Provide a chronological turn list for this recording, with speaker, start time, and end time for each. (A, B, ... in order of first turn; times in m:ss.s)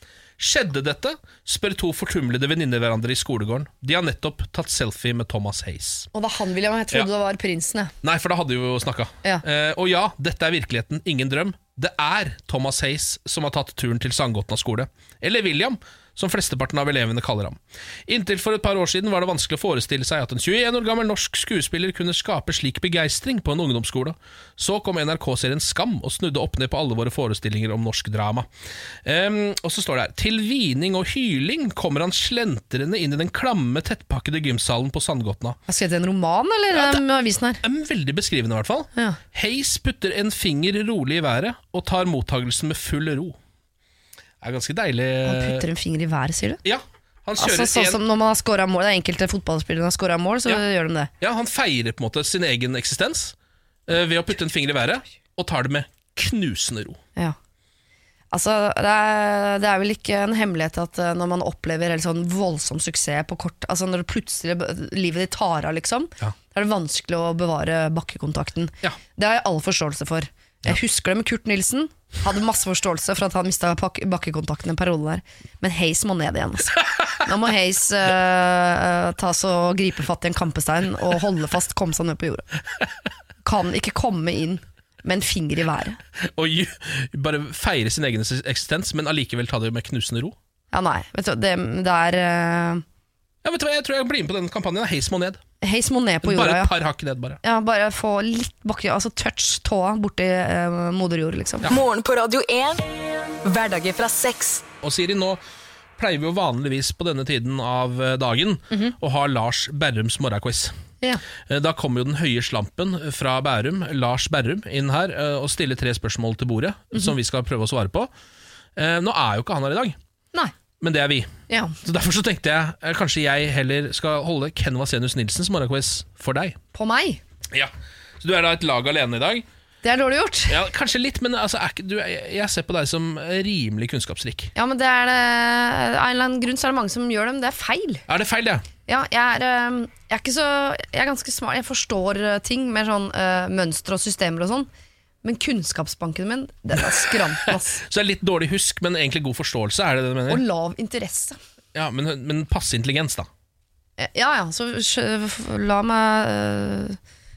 0:00.4-0:06.1 A
0:06.1-0:07.9 B
0:08.0-0:28.5 A
0:29.0-0:35.6 A
0:35.7-0:37.6 B
0:36.7-0:37.0 A
0:37.6-0:43.4 A
0:44.4-0:45.6 A
0:45.2-0:46.6 B
0:46.6-0:48.0 A
0:47.4-0:51.1 B
0:51.2-0:53.3 A
0:53.9-0:57.0 A
0:58.3-1:22.4 B
1:16.8-1:17.2 A
1:23.4-1:26.0 B
1:26.2-1:30.4 A
1:30.7-1:32.8 B
1:33.4-1:35.4 A
1:35.6-1:36.7 B
1:36.2-1:37.4 A
1:37.4-1:41.7 B
1:41.7-1:42.8 C
1:43.4-1:44.7 C
1:44.8-1:45.4 A
1:46.0-1:50.7 A
1:51.4-1:58.1 A
1:58.8-2:00.0 A
2:00.8-2:01.3 A
2:01.5-2:01.8 B
2:01.8-2:06.6 A
2:06.7-2:07.2 B
2:07.5-2:09.4 A
2:09.8-2:10.6 B
2:10.5-2:14.5 A
2:14.5-2:18.0 B
2:18.1-2:18.6 A
2:18.9-2:24.7 B
2:25.2-2:27.8 B
2:27.4-2:30.4 A
2:30.3-2:31.4 B
2:31.7-2:33.3 A
2:34.0-2:37.0 B